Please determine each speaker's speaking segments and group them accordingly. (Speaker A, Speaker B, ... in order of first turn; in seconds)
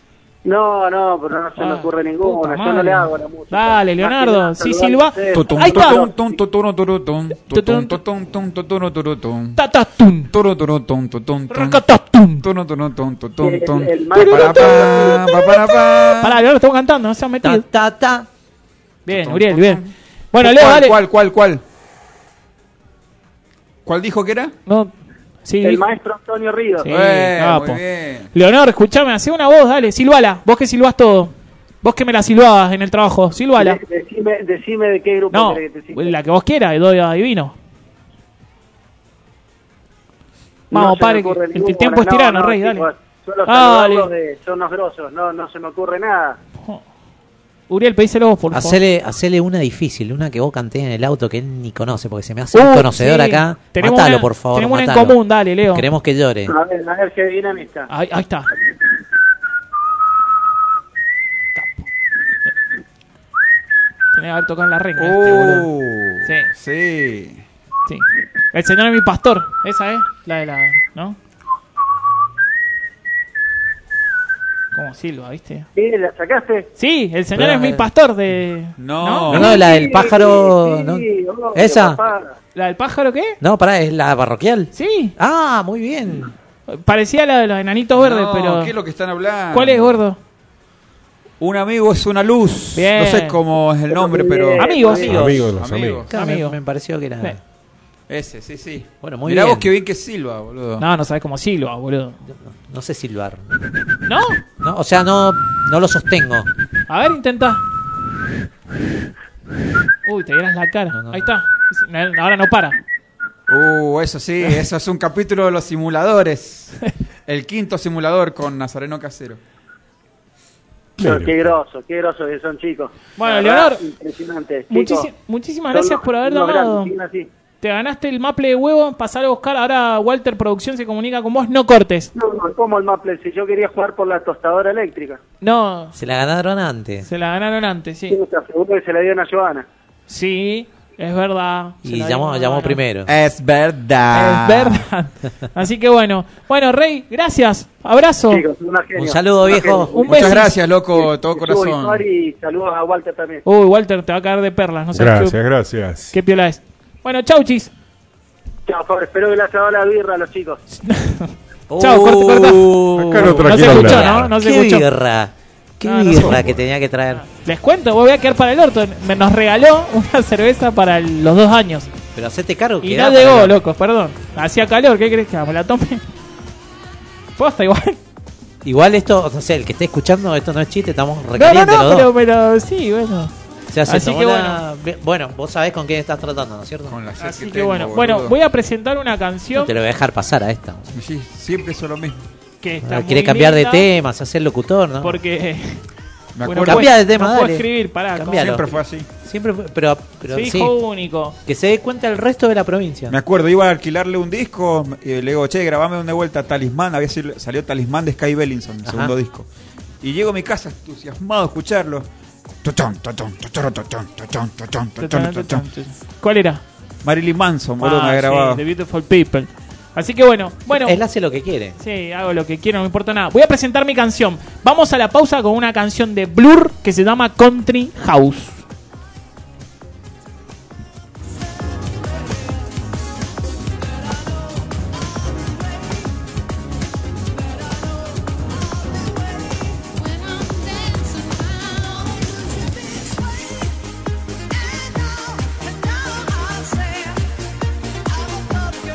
Speaker A: 0.4-6.1, 13.4-15.2, 25.6-26.9, 33.6-36.1, 40.7-46.4, 56.5-57.9, 75.7-76.7, 79.3-82.3, 93.9-95.4, 121.0-125.1, 125.7-127.3, 132.1-135.2, 138.1-139.7, 148.3-153.4, 158.7-160.6
Speaker B: 1.6-6.0, 7.5-8.0, 9.6-10.3, 11.5-12.4, 14.1-17.6, 19.1-19.8, 20.3-21.0, 24.7-24.9, 25.4-25.8, 26.8-27.8, 28.3-33.8, 35.3-37.5, 40.7-42.9, 43.5-44.1, 47.7-48.8, 52.5-55.9, 57.9-58.5, 61.5-61.9, 64.1-65.7, 67.9-71.2, 74.7-75.7, 76.8-79.4, 82.5-83.4, 84.7-85.1, 86.7-88.7, 89.5-90.2, 92.7-93.4, 94.5-95.2, 96.1-96.6, 100.8-102.2, 104.0-104.4, 106.9-107.6, 110.0-112.8, 123.2-123.8, 124.7-126.9, 127.6-132.1, 135.4-135.9, 137.0-138.2, 140.1-142.8, 144.1-148.4, 149.9-150.5, 153.4-155.4, 156.1-157.7, 160.8-164.8, 165.8-166.4, 167.2-171.9, 172.8-176.0, 177.4-178.0, 181.3-183.3, 183.8-184.6, 187.2-189.7, 192.6-193.9, 195.0-195.8, 196.4-198.6, 200.3-201.3, 215.0-216.6, 217.8-221.0, 221.8-228.6
Speaker C: 5.3-9.6, 10.3-11.8, 12.4-16.4, 19.1-19.9, 20.4-21.6, 23.9-24.5, 26.9-28.3, 65.0-67.4, 78.8-79.6, 88.0-90.0, 91.4-94.8, 95.4-96.1, 98.1-100.8, 113.5-119.4, 143.1-144.8, 150.1-152.0, 186.9-188.3, 190.9-192.2, 196.3-196.9, 198.4-199.1, 203.1-209.5, 210.0-212.1, 212.6-215.6, 217.0-218.6
Speaker D: 17.4-18.3, 48.5-55.2, 55.7-56.5, 77.3-77.8, 79.3-82.0, 83.4-86.3, 94.9-95.4, 96.1-97.4, 99.0-99.7, 102.3-103.5, 104.6-106.5, 110.9-111.3, 135.9-137.1, 141.8-143.1, 148.9-149.9, 161.7-167.2, 172.1-173.6, 178.6-182.1, 183.7-187.0, 189.5-190.9, 192.8-195.2, 196.6-200.8, 201.4-203.2, 208.8-209.1, 220.7-221.8
Speaker E: 95.0-96.1, 121.0-121.5, 154.9-156.1, 162.9-164.3